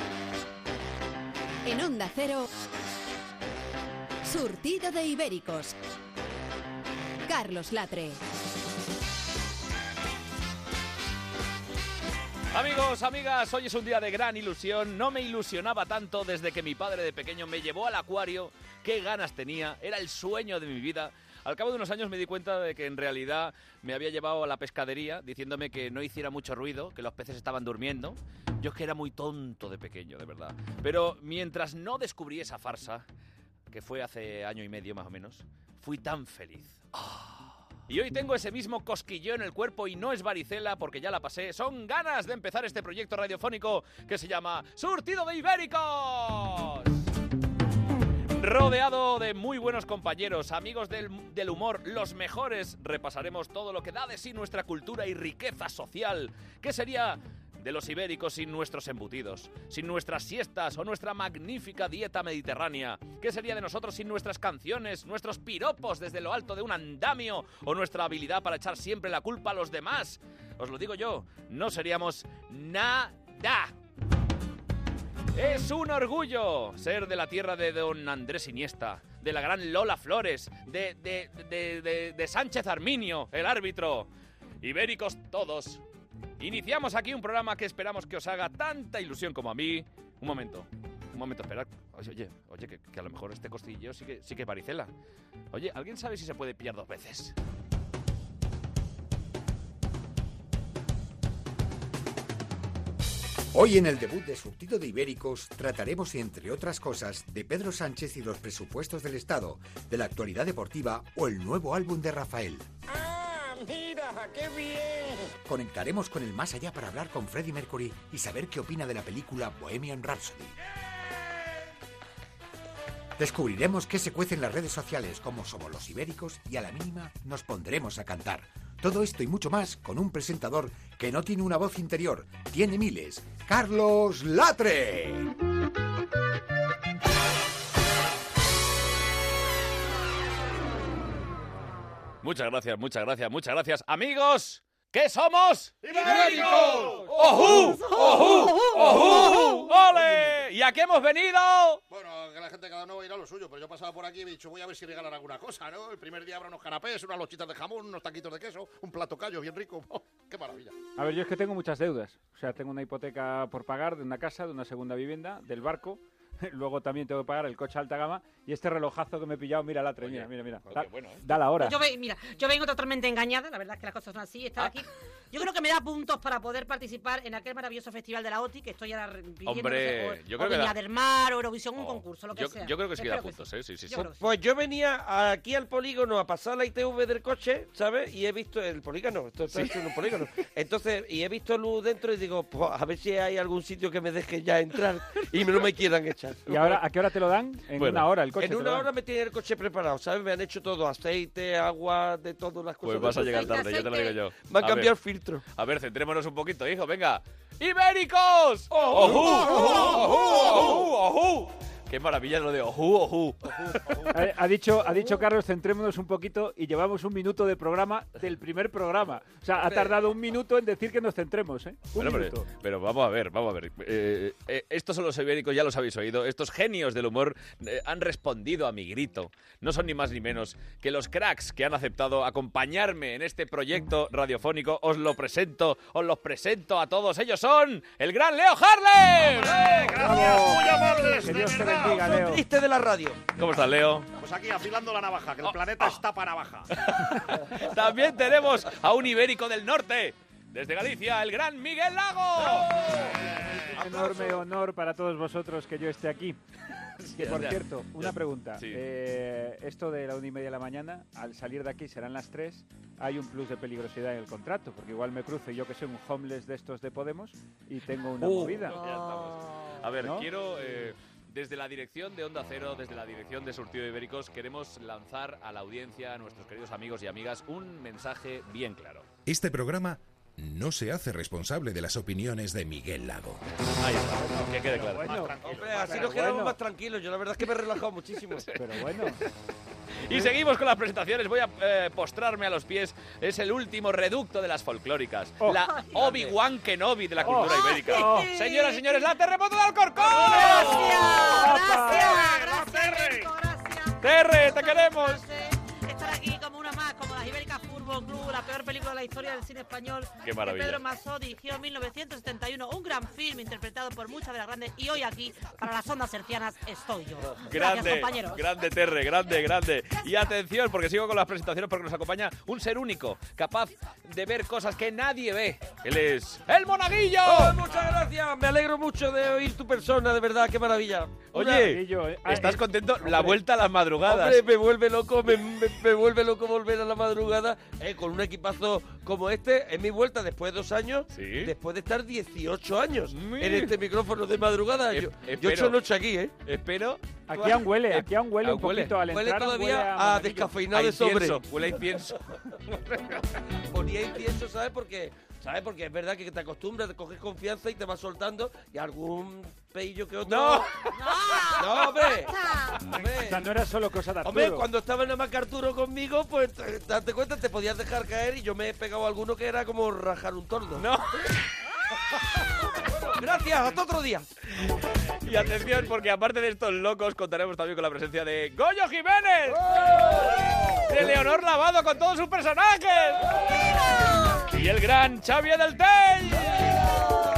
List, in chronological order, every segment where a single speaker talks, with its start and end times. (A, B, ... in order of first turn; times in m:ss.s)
0:01.6-0:02.5 A
0:04.2-0:05.8 A
0:07.3-0:08.2 A
0:12.5-0:33.0 B
0:33.7-0:47.1 B
0:48.4-1:13.7 B
1:15.3-1:24.1 B
1:24.6-1:25.8 B
1:26.4-1:34.9 B
1:35.5-1:37.3 B
1:43.5-1:52.7 C
1:55.4-2:00.6 C
2:03.2-2:15.3 C
2:22.2-2:31.8 B
2:25.8-2:27.1 D
2:31.9-2:40.7 D
2:41.0-2:51.8 E
2:50.0-2:51.3 B
2:51.6-3:04.3 F
2:59.4-3:00.8 B
3:01.8-3:04.1 B
3:04.2-3:16.8 G
3:16.4-3:18.9 E
3:17.8-3:18.1 B
3:18.3-3:23.6 G
3:22.8-3:34.1 B
3:23.2-3:24.2 F
3:24.4-3:25.4 G
3:28.7-3:30.9 G
3:33.5-3:34.3 G
3:34.1-3:42.4 E
3:39.6-3:39.9 G
3:42.0-4:00.0 B
3:59.3-4:02.1 D
3:59.9-4:02.5 E
4:01.9-4:03.2 G
4:03.4-4:04.1 B
4:04.2-4:06.7 D
4:05.4-4:06.0 B
4:06.8-4:13.2 B
4:13.2-4:14.2 D
4:13.5-4:16.4 E
4:17.0-4:18.8 B
4:17.1-4:28.8 E
4:28.2-4:39.0 B
4:28.2-4:28.8 G
4:30.0-4:30.3 E
4:39.2-4:43.4 H
4:43.8-4:45.3 B
4:44.7-4:46.3 D
4:44.7-4:46.6 E
4:45.4-4:48.5 G
4:48.5-4:49.1 B
4:48.6-4:49.2 E
4:50.0-5:03.3 B
4:55.7-4:56.2 F
4:57.2-4:58.3 E
4:57.4-4:59.1 F
5:00.0-5:18.5 F
5:01.4-5:02.2 E
5:04.0-5:05.2 B
5:10.2-5:10.8 B
5:17.5-5:27.6 B
5:27.2-5:31.8 G
5:31.3-5:34.4 B
5:31.3-5:33.4 E
5:34.0-5:46.3 G
5:41.1-5:41.5 B
5:43.1-5:43.7 B
5:44.9-5:45.8 B
5:46.4-5:47.2 B
5:47.3-5:50.6 E
5:47.3-5:47.7 G
5:47.9-5:49.0 B
5:49.0-5:51.4 G
5:50.7-5:52.2 B
5:53.7-6:00.7 G
6:00.2-6:00.7 B
6:00.9-6:02.8 F
6:01.6-6:02.3 G
6:02.9-6:03.5 G
6:03.0-6:04.6 E
6:04.2-6:10.8 G
6:10.8-6:11.3 B
6:12.9-6:14.2 G
6:14.5-6:20.3 B
6:20.8-6:23.4 B
6:24.5-6:27.0 B